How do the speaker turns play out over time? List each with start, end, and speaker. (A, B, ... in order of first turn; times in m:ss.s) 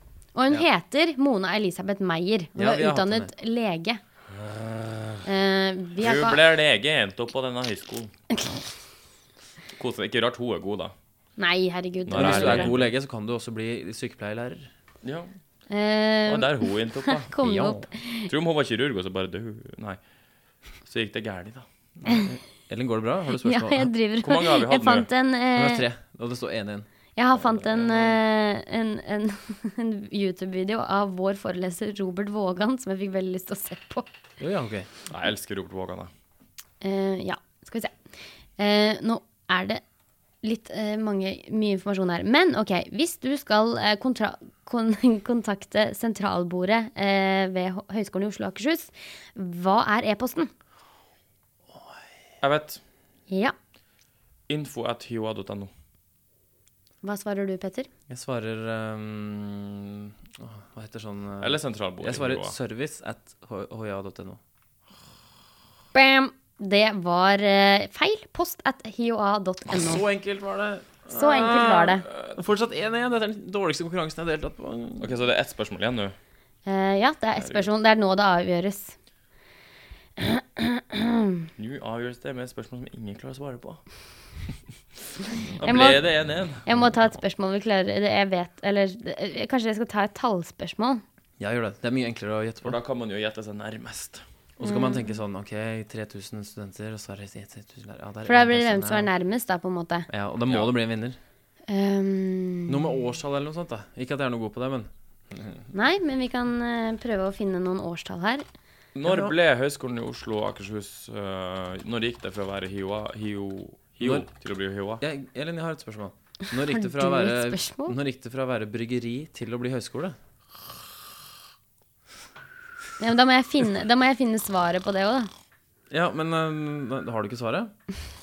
0:00.4-0:04.0 A
0:02.6-0:03.3 B
0:04.5-0:05.1 C
0:05.2-0:06.4 A
0:06.0-0:08.1 C
0:09.8-0:11.0 C
0:11.4-0:12.7 A
0:12.1-0:12.9 C
0:12.1-0:14.7 B
0:15.0-0:15.3 C
0:15.7-0:18.3 A
0:16.3-0:17.8 C
0:17.4-0:17.9 B
0:18.3-0:20.0 C
0:20.8-0:21.7 C
0:22.0-0:23.9 B
0:23.4-0:25.8 A
0:24.2-0:25.1 C
0:25.6-0:26.9 B
0:27.2-0:34.1 A
0:27.4-0:28.2 C
0:34.4-0:34.9 B
0:35.1-0:36.1 C
0:36.8-0:37.9 A
0:38.6-0:39.8 A
0:40.4-0:50.5 A
0:52.4-0:52.8 C
0:54.5-0:55.7 C
0:57.0-0:57.9 A
0:58.1-1:04.4 B
1:01.4-1:02.6 C
1:05.9-1:10.0 A
1:09.7-1:15.2 B
1:11.1-1:12.0 A
1:15.0-1:16.2 C
1:16.7-1:19.0 A
1:17.4-1:17.6 C
1:20.2-1:21.4 A
1:21.6-1:23.8 C
1:25.4-1:26.7 C
1:25.6-1:26.0 A
1:26.6-1:31.0 A
1:31.4-1:32.8 B
1:32.6-1:34.2 C
1:34.6-1:39.1 B
1:34.6-1:35.2 A
1:38.3-1:40.1 A
1:40.1-1:41.2 B
1:41.7-1:42.9 A
1:42.7-1:45.6 B
1:45.7-1:48.4 A
1:49.0-1:55.0 C
1:49.1-1:49.4 B
1:54.0-1:54.3 B
1:55.0-2:00.2 B
1:56.7-1:57.9 A
2:03.0-2:05.3 A
2:05.9-2:07.7 B